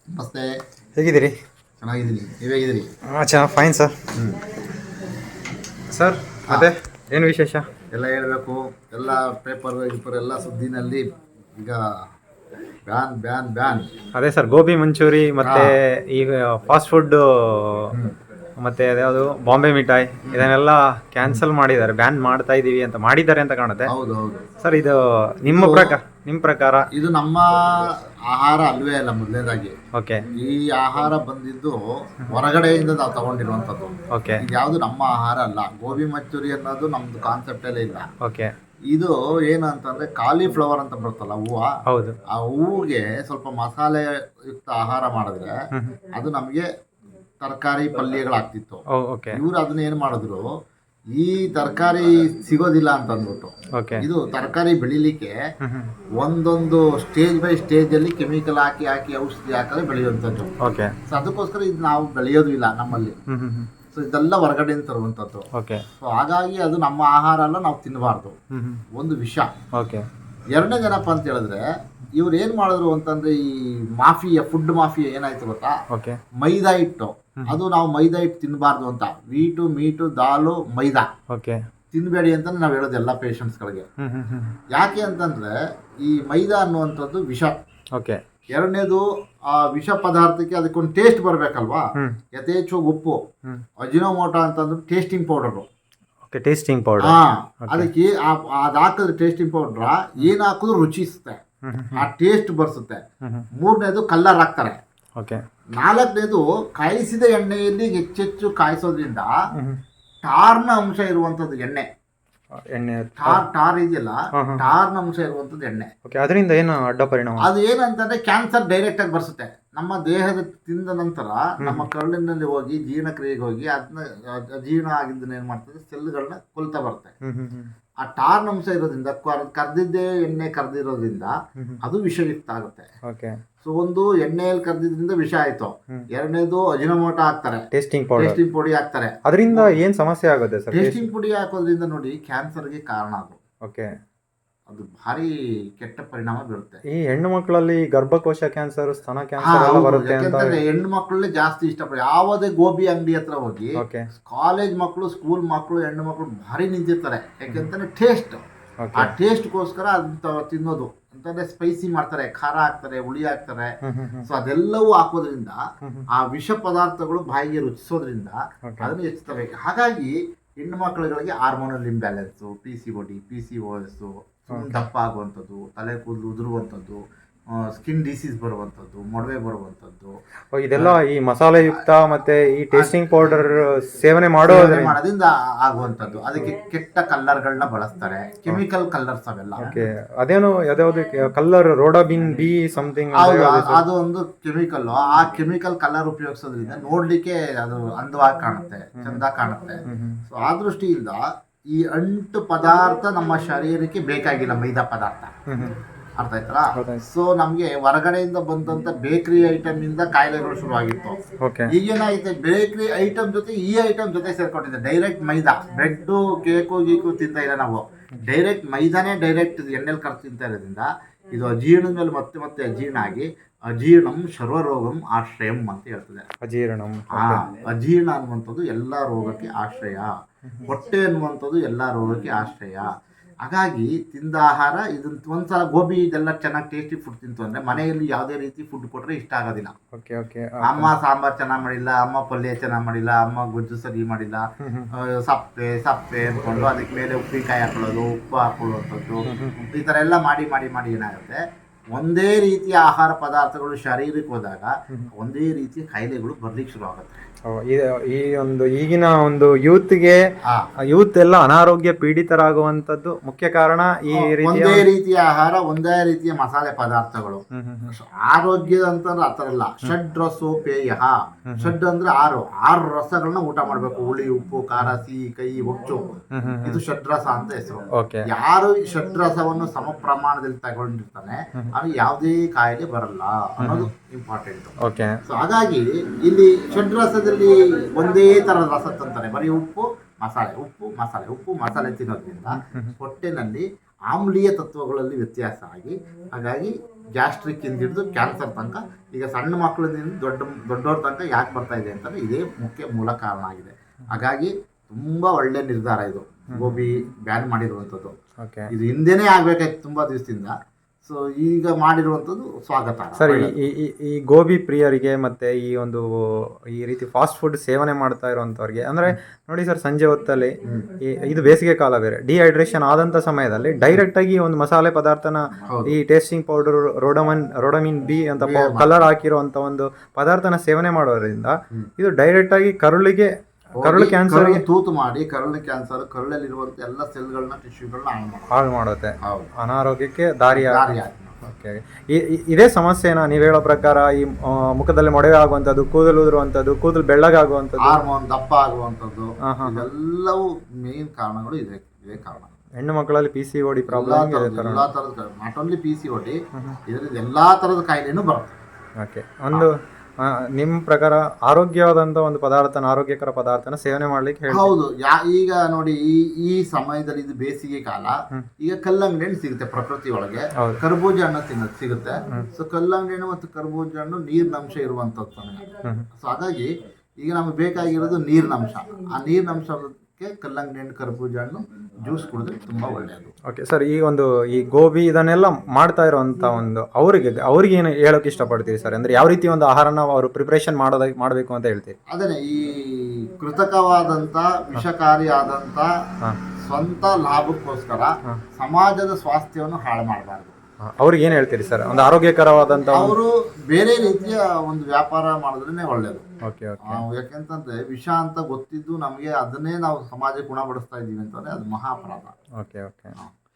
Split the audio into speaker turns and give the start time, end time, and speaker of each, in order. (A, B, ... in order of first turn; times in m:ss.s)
0:00.2-0:00.5 A
0:01.0-0:01.3 B
0:01.8-0:02.8 A
0:03.1-0:04.0 B
0:04.1-0:04.4 A
0:05.9-0:07.7 B
0:07.9-0:11.0 A
0:12.9-0:13.9 A
0:14.1-0:18.0 B
0:15.4-0:15.7 A
0:18.6-0:23.9 B
0:23.8-0:24.5 A
0:24.6-0:26.9 B
0:25.5-0:26.0 A
0:26.9-0:29.7 A
0:29.9-0:30.3 B
0:30.3-0:38.1 A
0:34.1-0:34.4 B
0:38.2-0:38.5 B
0:38.9-0:41.7 A
0:41.9-0:42.2 B
0:42.3-0:45.5 A
0:45.7-0:46.0 B
0:46.1-0:46.6 A
0:47.4-0:50.5 A
0:48.9-0:49.4 B
0:51.2-0:55.3 A
0:53.7-0:54.1 B
0:55.6-0:55.9 B
0:56.2-1:00.5 A
1:00.6-1:01.0 B
1:01.1-1:03.2 A
1:03.3-1:03.7 B
1:03.9-1:05.4 A
1:05.5-1:05.8 B
1:06.0-1:08.3 A
1:08.5-1:08.8 B
1:09.0-1:09.5 A
1:09.7-1:10.1 B
1:10.5-1:11.6 A
1:12.2-1:15.7 A
1:15.9-1:16.2 B
1:16.4-1:21.1 A
1:21.3-1:21.6 B
1:21.9-1:23.8 A
1:24.0-1:24.6 B
1:24.7-1:27.6 A
1:27.9-1:28.2 B
1:28.5-1:31.8 A
1:32.3-1:33.2 A
1:33.8-1:35.7 A
1:36.3-1:37.9 B
1:37.0-1:41.4 A
1:41.6-1:42.1 B
1:41.9-1:43.0 A
1:43.6-1:44.8 A
1:45.8-1:49.3 A
1:50.2-1:51.8 A
1:52.6-1:53.4 B
1:53.2-1:55.9 A
1:54.4-1:54.6 B
1:56.0-1:57.4 B
1:57.4-2:07.1 A
2:01.6-2:01.9 B
2:07.2-2:07.7 B
2:08.0-2:12.9 A
2:13.1-2:13.4 B
2:13.6-2:17.6 A
2:17.7-2:18.4 B
2:18.2-2:19.8 A
2:19.2-2:21.0 B
2:20.7-2:23.4 A
2:24.7-2:26.8 A
2:26.9-2:30.6 B
2:29.4-2:38.4 A
2:33.8-2:34.1 B
2:38.8-2:39.1 B
2:38.9-2:43.7 A
2:43.8-2:44.2 B
2:44.2-2:45.6 A
2:46.1-2:57.0 A
2:57.6-3:00.2 A
3:00.5-3:04.9 B
3:02.7-3:03.4 A
3:04.4-3:09.7 A
3:09.6-3:13.8 B
3:13.1-3:21.2 A
3:19.0-3:19.2 B
3:19.9-3:20.2 B
3:21.7-3:25.3 A
3:25.5-3:25.8 B
3:26.2-3:46.2 A
3:26.8-3:27.0 B
3:31.4-3:31.7 B
3:46.4-3:47.4 B
3:47.1-3:50.1 A
3:50.6-3:52.9 A
3:53.4-3:59.7 A
3:59.9-4:00.9 B
4:00.6-4:11.4 A
4:04.6-4:04.9 B
4:09.3-4:09.5 B
4:11.9-4:17.1 A
4:17.5-4:20.2 B
4:20.9-4:24.8 B
4:24.1-4:36.1 A
4:27.5-4:27.9 B
4:36.3-4:36.8 B
4:36.6-4:44.8 A
4:38.0-4:38.2 B
4:43.6-4:43.9 B
4:44.8-4:45.2 B
4:45.3-5:08.1 A
4:52.6-4:52.9 B
5:06.5-5:06.8 B
5:08.4-5:08.7 B
5:08.7-5:13.6 A
5:13.2-5:16.0 B
5:16.7-5:34.6 B
5:25.7-5:25.9 A
5:28.4-5:28.9 A
5:33.8-5:38.5 A
5:38.5-5:48.0 B
5:39.2-5:39.5 A
5:40.5-5:41.4 A
5:47.8-5:52.5 A
5:49.4-5:49.8 B
5:52.8-5:54.8 B
5:53.9-5:58.6 A
5:59.0-6:04.7 B
6:04.5-6:15.6 A
6:16.2-6:23.3 A
6:23.5-6:32.0 B
6:32.1-6:35.9 A
6:36.6-6:40.6 A
6:40.9-6:43.2 B
6:42.9-6:46.2 A
6:46.4-6:47.0 B
6:46.8-6:52.3 A
6:52.6-6:53.1 B